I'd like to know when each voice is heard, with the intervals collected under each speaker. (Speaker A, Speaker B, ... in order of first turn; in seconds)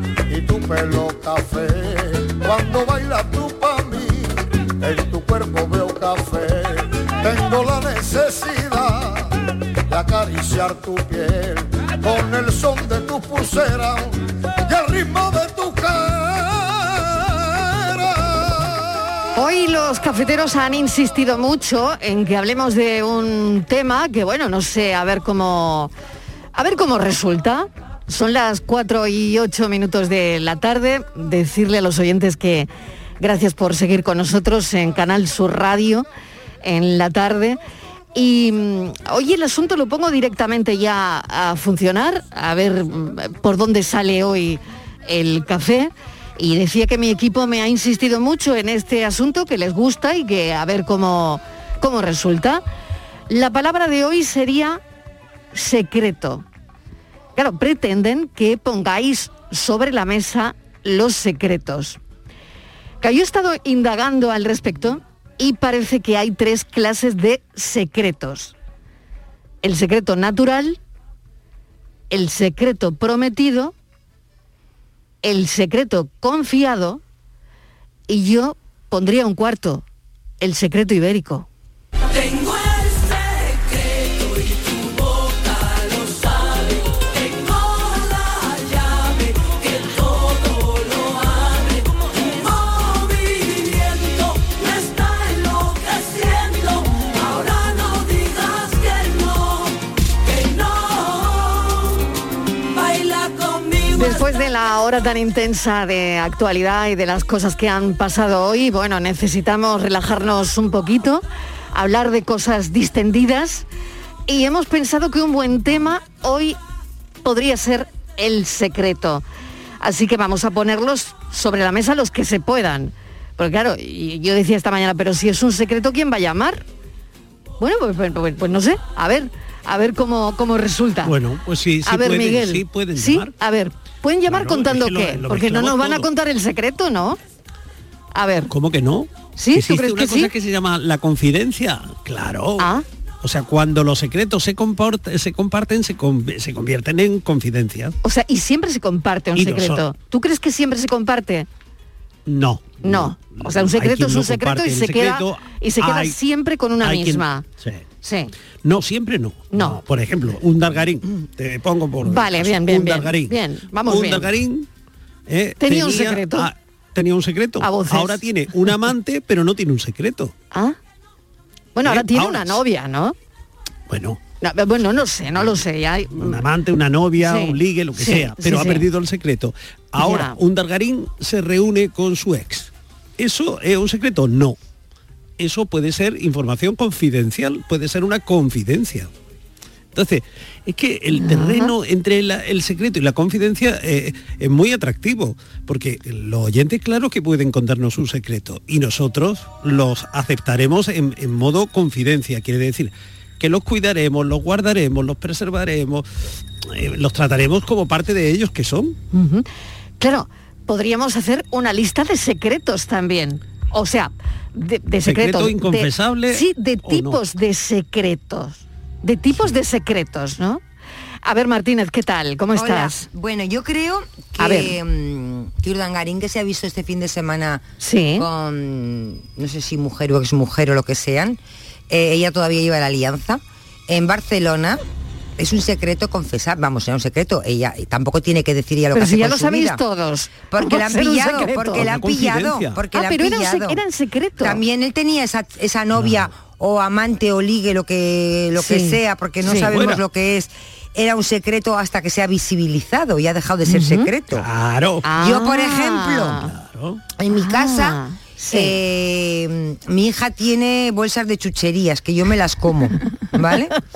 Speaker A: 0.3-9.3, 9.9-14.1, 14.7-19.1
Speaker B: 19.4-25.9, 26.5-32.7, 33.2-36.0, 36.6-37.6, 38.1-52.6, 53.3-54.8, 55.5-56.5, 57.4-62.0, 63.0-68.5, 69.6-70.8, 72.1-73.7, 75.2-77.0, 78.1-79.8, 80.4-81.5, 103.9-113.7, 114.3-116.6, 117.2-119.2, 119.8-126.6, 127.6-131.1, 131.8-137.2, 138.1-138.5, 139.4-140.3, 148.0-151.5, 152.8-157.4, 158.0-158.3, 159.5-159.8, 162.0-164.3, 165.6-166.5, 167.6-168.7, 170.5-170.8, 171.8-173.1, 174.4-176.4, 177.2-178.8, 180.0-180.4, 191.1-191.7, 209.1-209.4, 210.0-220.6, 221.2-223.0, 224.4-224.7, 227.8-228.2, 238.9-241.9, 242.9-244.6, 248.6-249.7, 253.7-254.1, 255.0-256.5, 257.3-258.7
Speaker C: 131.0-133.3, 134.3-136.1, 138.5-142.7, 143.2-147.9, 149.3-149.8, 152.3-156.2, 156.8-157.8, 158.6-164.7, 165.3-170.3, 171.8-172.6, 173.9-174.2, 176.1-184.6, 185.4-189.1, 189.9-206.1, 206.6-208.9, 215.0-217.2, 241.7-242.8, 246.0-246.3, 249.6-250.0, 254.3-255.0, 256.4-257.0
Speaker D: 222.5-227.6, 228.2-231.4, 231.9-234.8, 235.4-239.8, 240.5-243.8, 244.4-254.5, 255.2-256.4, 257.2-263.7